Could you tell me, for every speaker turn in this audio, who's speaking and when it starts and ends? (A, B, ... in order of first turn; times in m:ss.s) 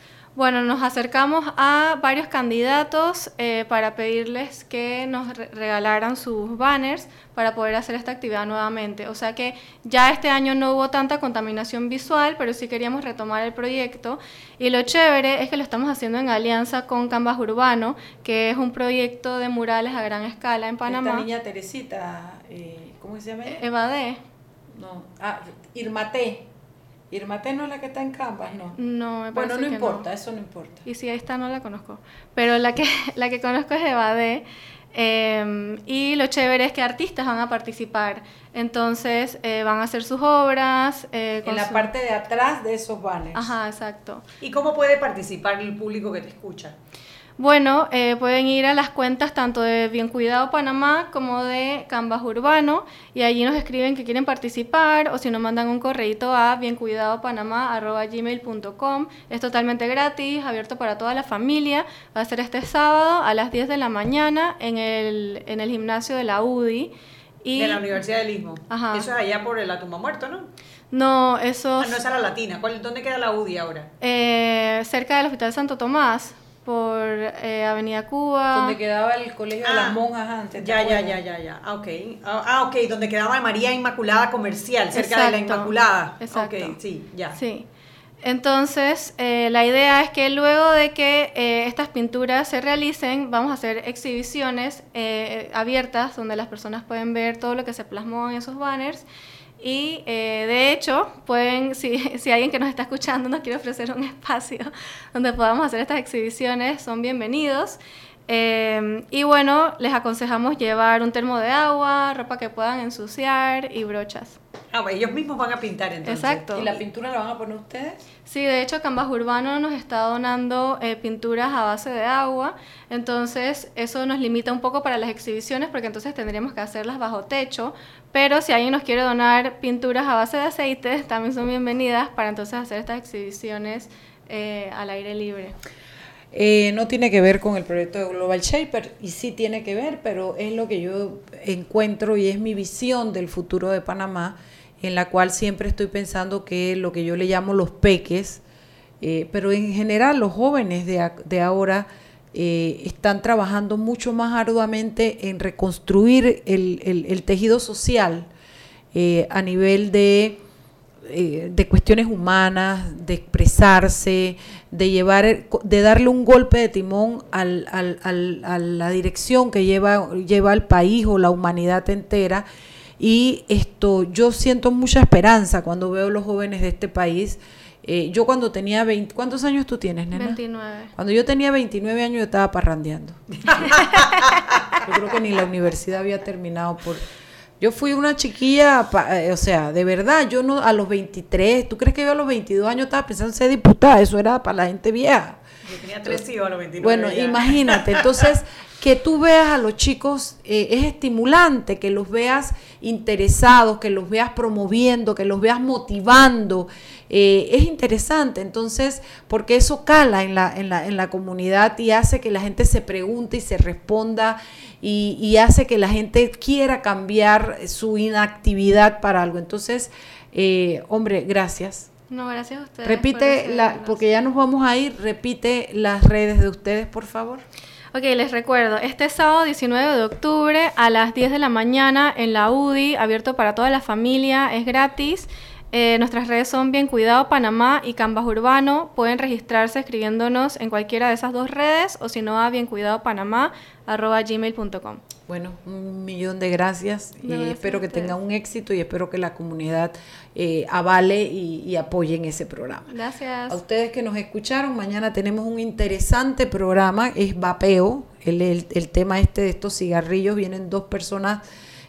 0:00.4-0:21.3 A
0:20.9-0:23.6 B
0:23.5-0:24.2 A
0:24.7-0:26.5 B
0:27.1-0:28.8 B
0:28.8-0:30.1 A
0:29.3-0:30.8 B
0:30.8-0:41.9 A
0:41.4-0:43.5 B
0:43.3-0:44.2 A
0:44.4-0:46.7 C
0:47.4-1:06.9 A
1:07.4-1:07.9 A
1:07.5-1:10.5 C
1:08.7-1:09.1 A
1:10.9-1:12.0 A
1:11.8-1:13.9 C
1:14.0-1:18.8 A
1:18.5-1:21.2 B
1:19.6-1:20.0 C
1:20.6-1:27.4 C
1:24.9-1:26.8 A
1:27.3-1:27.6 A
1:28.2-1:39.0 A
1:39.6-1:54.4 A
1:54.7-1:56.4 C
1:56.0-1:56.8 A
1:56.5-1:58.0 B
1:58.2-2:15.5 A
2:16.3-2:28.4 B
2:29.0-2:38.3 B
2:38.9-2:40.4 B
2:41.0-2:52.4 B
2:53.0-3:00.4 B
3:00.1-3:00.9 A
3:00.9-3:03.2 B
3:03.4-3:04.6 C
3:04.8-3:07.0 B
3:07.6-3:15.4 B
3:15.6-3:18.2 C
3:16.8-3:41.9 B
3:42.1-3:44.0 A
3:42.8-3:47.4 B
3:47.9-4:05.0 A
4:05.3-4:12.9 B
4:07.2-4:08.1 A
4:12.9-4:13.6 A
4:13.5-4:21.4 B